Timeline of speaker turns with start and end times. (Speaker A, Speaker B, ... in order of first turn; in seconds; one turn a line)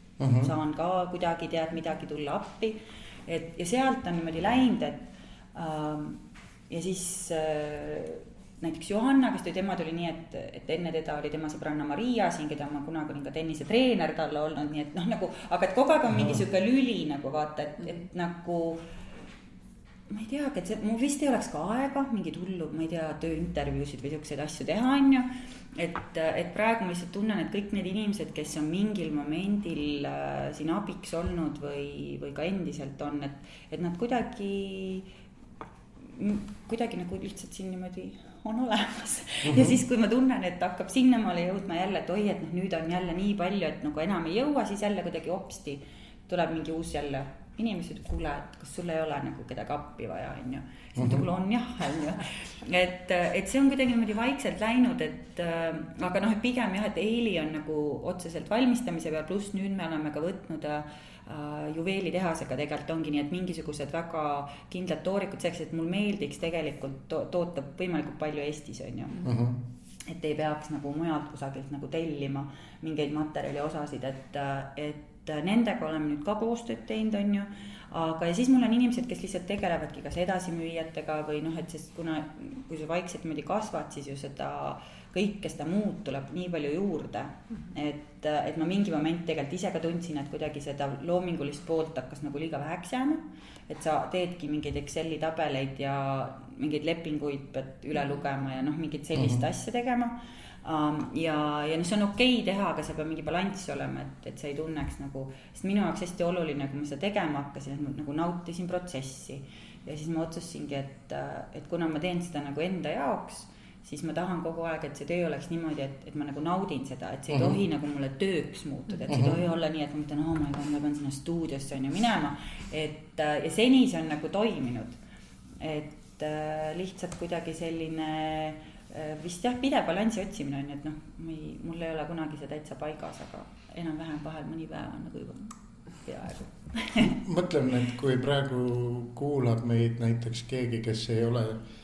Speaker A: 0.2-0.5
Speaker B: 0.2-18.8
Speaker A: 16.2-16.4
Speaker B: 20.1-35.1
Speaker B: 36.1-69.3
Speaker A: 39.5-39.8
Speaker A: 51.0-51.2
Speaker A: 69.2-69.6
Speaker B: 70.1-125.0
Speaker A: 99.2-99.4
Speaker A: 117.3-117.6
Speaker A: 119.1-119.4
Speaker B: 125.6-137.2
Speaker A: 137.0-141.6